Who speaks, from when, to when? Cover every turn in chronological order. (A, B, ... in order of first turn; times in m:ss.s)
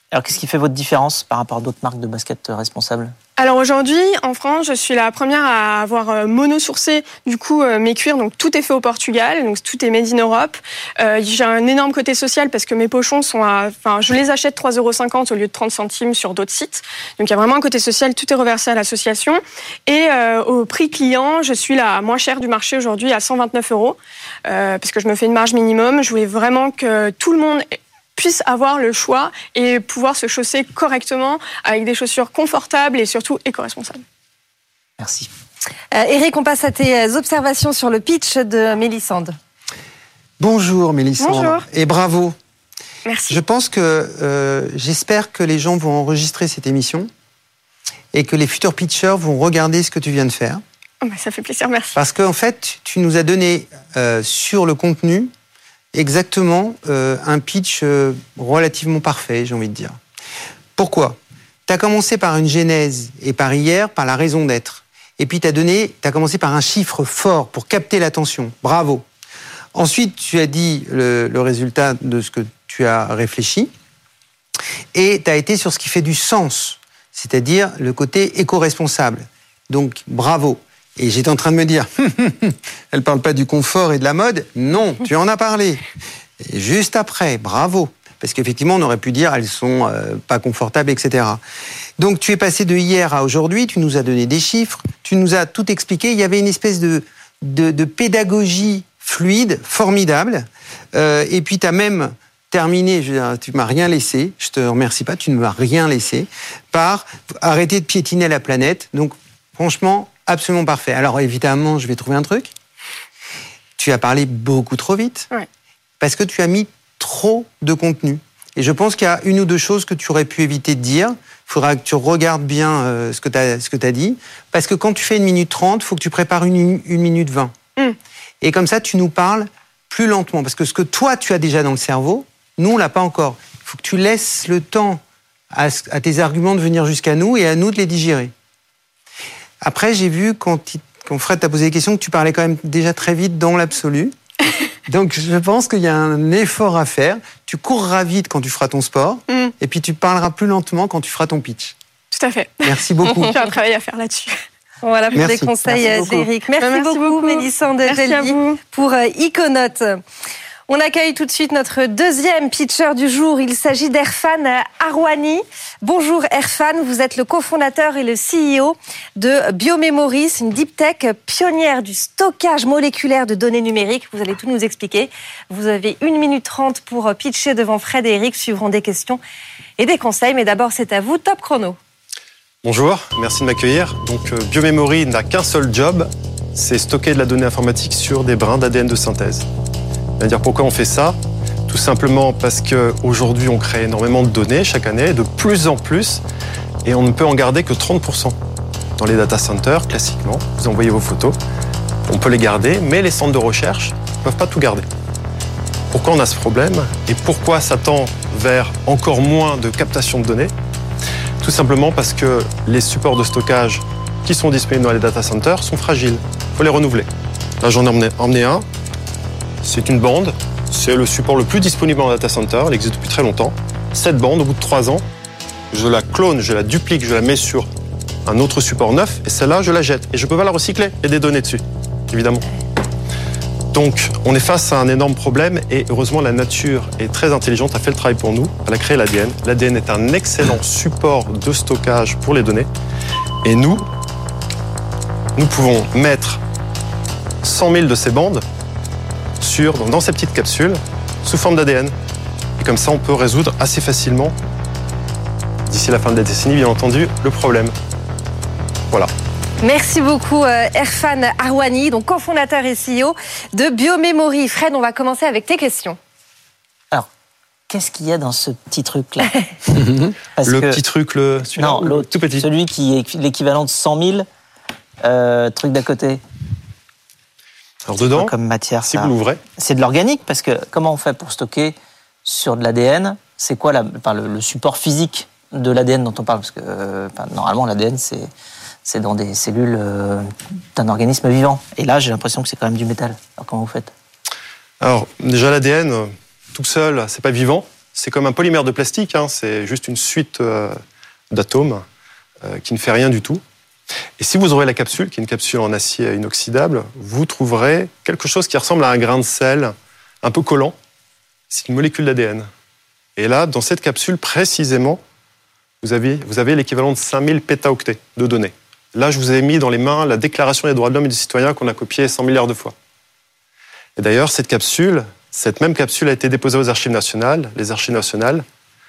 0:00.1-0:03.1 A
0:03.4-0:34.0 B
0:35.0-0:35.3 A
0:35.9-0:39.3 C
0:40.4-0:42.3 D
0:41.2-0:41.6 B
0:43.0-0:43.4 B
0:43.3-0:47.1 D
0:48.1-0:50.6 D
0:51.0-0:51.9 B
0:52.0-0:55.3 D
0:55.9-1:00.0 D
1:00.8-1:09.0 D
1:09.7-1:13.7 D
1:14.9-1:25.8 D
1:26.4-1:31.4 D
1:32.0-1:52.5 D
1:53.8-1:55.3 D
1:56.0-2:07.5 D
2:08.4-2:15.0 D
2:15.5-2:18.3 D
2:19.6-2:24.1 D
2:24.9-2:31.7 D
2:32.1-2:34.4 B
2:32.7-2:33.3 D
2:34.8-2:40.0 C
2:35.1-2:35.5 D
2:36.6-2:38.6 B
2:40.7-2:59.2 C
2:59.8-3:01.8 C
3:02.6-3:09.4 E
3:10.2-3:11.2 E
3:11.7-3:16.2 E
3:16.8-3:18.4 E
3:19.0-3:21.4 E
3:22.1-3:24.8 E
3:25.9-3:30.5 E
3:31.4-3:37.1 E
3:37.6-3:38.6 E
3:39.6-3:45.0 E
3:45.7-3:47.7 E
3:48.2-3:52.4 E
3:53.7-4:02.7 E
4:03.4-4:03.8 E
4:05.4-4:06.4 E
4:07.4-4:08.4 E
4:09.4-4:11.9 E
4:12.6-4:14.3 E
4:15.7-4:17.7 E
4:19.6-4:26.0 C
4:27.7-4:29.3 A
4:29.7-4:30.1 D
4:30.3-4:30.8 A
4:30.4-4:32.4 E
4:31.5-4:34.3 A
4:35.0-4:36.2 A
4:37.8-4:39.4 E
4:38.0-4:48.3 A
4:48.8-4:53.9 A
4:54.8-5:00.7 E
5:01.3-5:01.8 E
5:02.4-5:03.4 E
5:04.2-5:10.7 E
5:11.5-5:12.5 E
5:13.2-5:15.0 E
5:15.8-5:22.7 E
5:24.0-5:28.4 E